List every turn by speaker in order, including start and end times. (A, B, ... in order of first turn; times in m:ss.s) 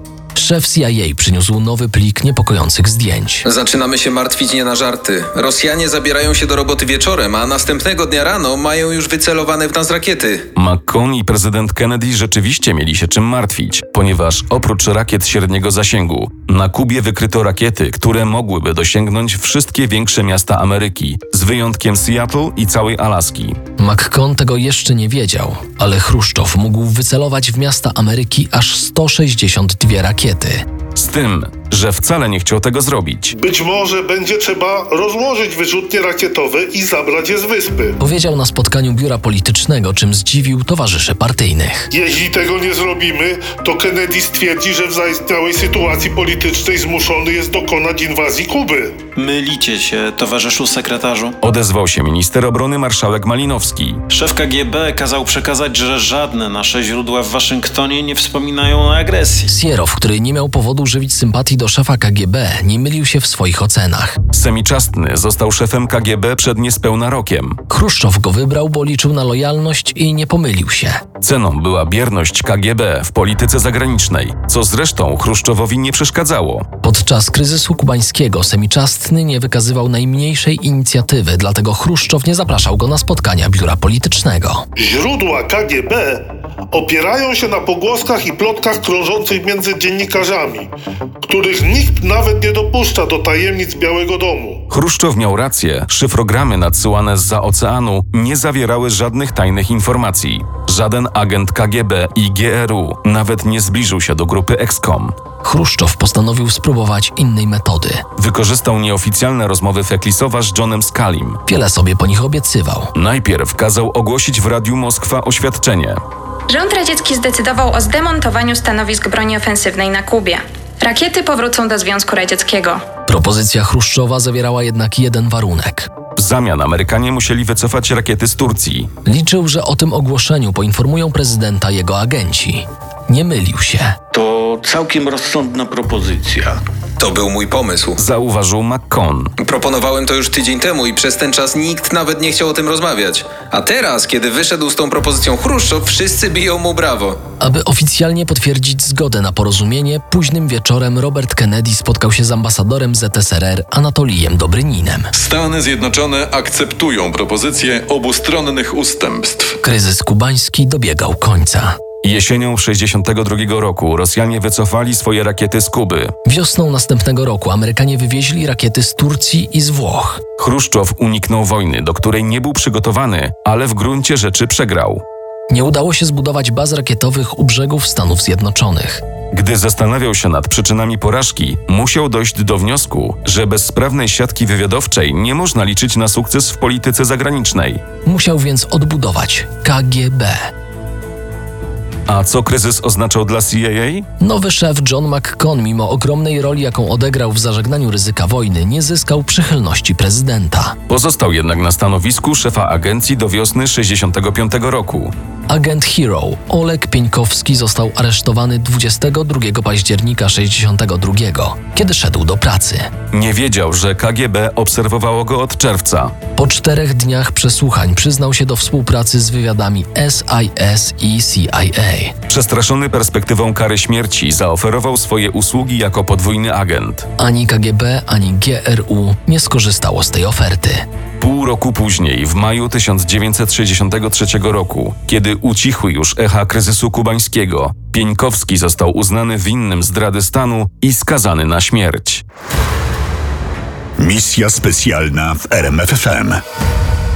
0:00.3-0:03.4 A
0:03.4-0:10.5 B
0:10.5-0:23.6 C
0:23.8-0:30.6 A
0:30.9-0:33.3 C
0:33.3-0:38.0 D
0:38.0-0:41.9 A
0:41.9-0:49.0 D
0:49.2-0:51.4 E
0:51.4-0:54.0 C
0:54.1-0:59.4 E
0:59.5-1:04.2 A
1:04.3-1:07.6 C
1:07.7-1:11.0 A
1:11.2-1:16.7 C
1:16.8-1:24.6 A
1:24.8-1:34.6 D
1:34.7-1:45.2 C
1:45.4-1:48.0 A
1:48.2-1:51.4 C
1:51.5-1:52.9 A
1:52.9-1:56.0 C
1:56.5-2:02.8 F
2:03.1-2:05.9 A
2:06.2-2:08.9 C
2:09.0-2:14.0 A
2:14.1-2:16.6 G
2:17.0-2:18.0 B
2:18.0-2:19.3 C
2:19.4-2:27.2 B
2:27.4-2:35.1 A
2:35.1-2:39.6 H
2:39.6-2:41.8 A
2:42.0-2:46.1 C
2:46.2-2:50.2 A
2:50.4-2:55.0 C
2:55.5-2:59.0 A
2:59.3-3:07.8 C
3:08.0-3:10.5 A
3:12.1-3:14.1 C
3:14.2-3:20.8 A
3:20.9-3:25.1 C
3:25.5-3:32.9 A
3:33.1-3:36.2 C
3:36.4-3:42.2 A
3:42.3-3:47.1 C
3:47.2-3:50.8 A
3:51.2-4:02.2 C
4:04.0-4:06.4 I